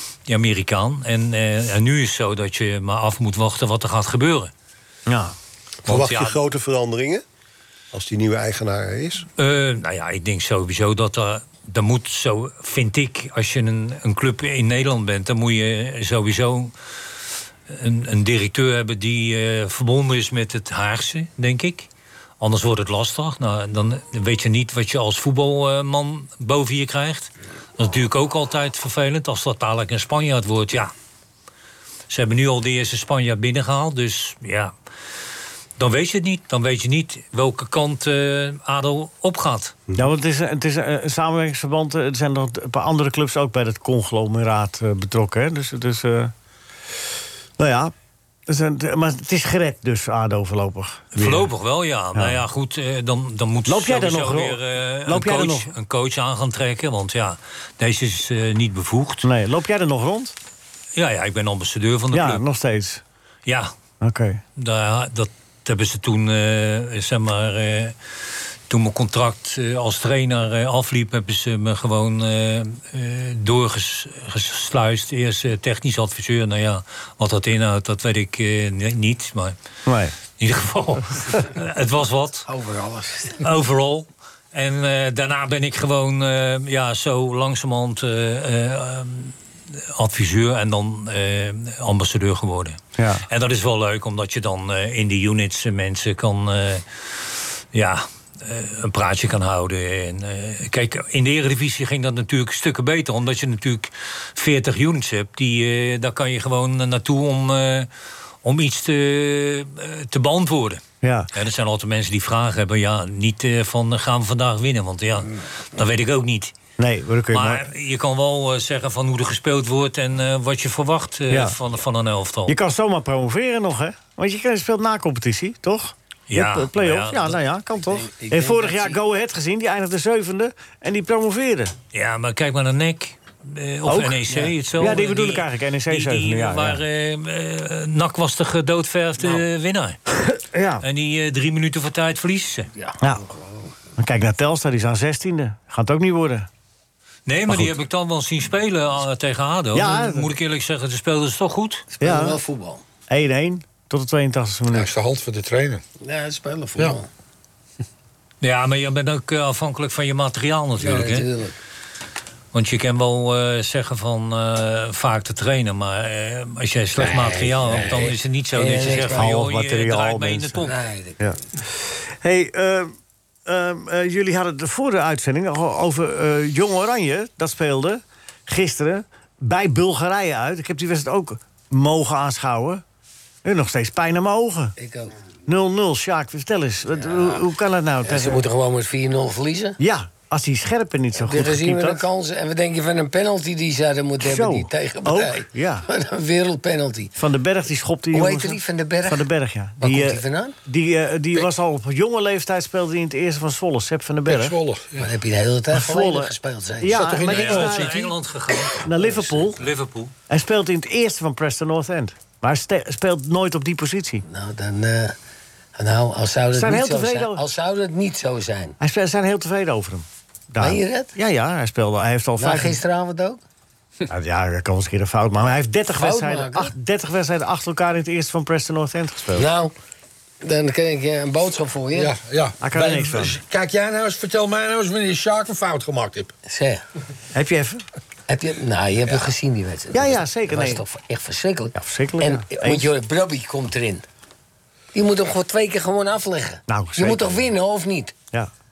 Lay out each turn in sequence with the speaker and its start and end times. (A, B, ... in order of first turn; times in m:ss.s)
0:00.3-0:04.5 A
0:05.1-0:05.4 B
0:05.9-0:07.2 C
0:05.9-0:06.4 A
0:07.9-0:09.2 C
0:09.4-0:16.7 A
0:17.7-0:21.9 A
0:22.4-0:30.9 A
0:32.1-0:34.7 A
0:35.8-0:39.8 A
0:40.0-0:46.3 B
0:47.6-0:47.9 B
0:48.5-0:51.5 B
0:51.2-0:59.3 A
0:52.2-0:52.4 B
0:53.7-0:55.7 B
0:59.2-1:00.4 B
1:01.0-1:02.4 A
1:02.1-1:03.0 B
1:03.5-1:03.7 A
1:04.0-1:04.4 B
1:04.6-1:08.0 A
1:08.7-1:19.6 A
1:19.9-1:20.1 B
1:20.4-1:22.5 A
1:22.5-1:23.4 D
1:23.4-1:47.9 A
1:33.0-1:33.2 B
1:48.4-1:50.8 A
1:51.0-1:51.3 B
1:51.3-1:56.5 A
1:56.8-1:57.7 B
1:57.3-2:02.6 A
2:01.3-2:01.6 B
2:02.5-2:11.7 B
2:06.3-2:07.4 A
2:07.9-2:09.0 D
2:11.9-2:20.0 A
2:13.9-2:16.8 B
2:20.3-2:20.8 B
2:20.8-2:22.7 A
2:22.8-2:23.7 D
2:24.0-2:26.5 B
2:27.3-2:31.9 A
2:27.5-2:27.8 B
2:29.7-2:30.3 B
2:31.9-2:32.8 D
2:32.0-2:32.4 B
2:33.1-2:34.9 B
2:34.7-2:35.8 E
2:36.0-2:37.1 D
2:38.4-2:41.3 A
2:40.8-2:41.6 D
2:42.5-2:50.8 A
2:47.0-2:49.3 D
2:49.1-2:52.9 B
2:50.6-2:51.2 D
2:53.4-3:02.8 B
3:03.4-3:04.8 B
3:04.8-3:05.1 D
3:05.5-3:08.4 B
3:06.9-3:07.4 D
3:08.0-3:09.8 D
3:09.8-3:12.0 B
3:11.2-3:17.1 D
3:14.2-3:15.9 B
3:17.2-3:24.6 B
3:18.1-3:19.3 D
3:19.8-3:20.6 D
3:24.3-3:25.1 E
3:25.0-3:27.2 D
3:25.7-3:28.1 B
3:26.9-3:28.0 E
3:27.3-3:28.8 A
3:28.8-3:29.6 B
3:29.0-3:29.5 D
3:29.6-3:30.1 A
3:30.3-3:34.2 B
3:34.2-3:35.2 D
3:35.8-3:38.8 D
3:36.5-3:37.4 B
3:38.8-3:42.8 B
3:40.6-3:41.1 D
3:42.4-3:43.4 D
3:44.1-3:49.5 B
3:46.0-3:46.7 D
3:49.4-3:49.7 D
3:50.4-3:52.2 D
3:51.9-3:56.3 E
3:52.6-3:53.4 B
3:56.5-3:56.8 D
3:57.3-3:57.8 B
3:58.3-4:04.0 D
3:59.9-4:00.8 B
4:01.8-4:02.9 B
4:04.9-4:08.2 D
4:06.7-4:07.5 B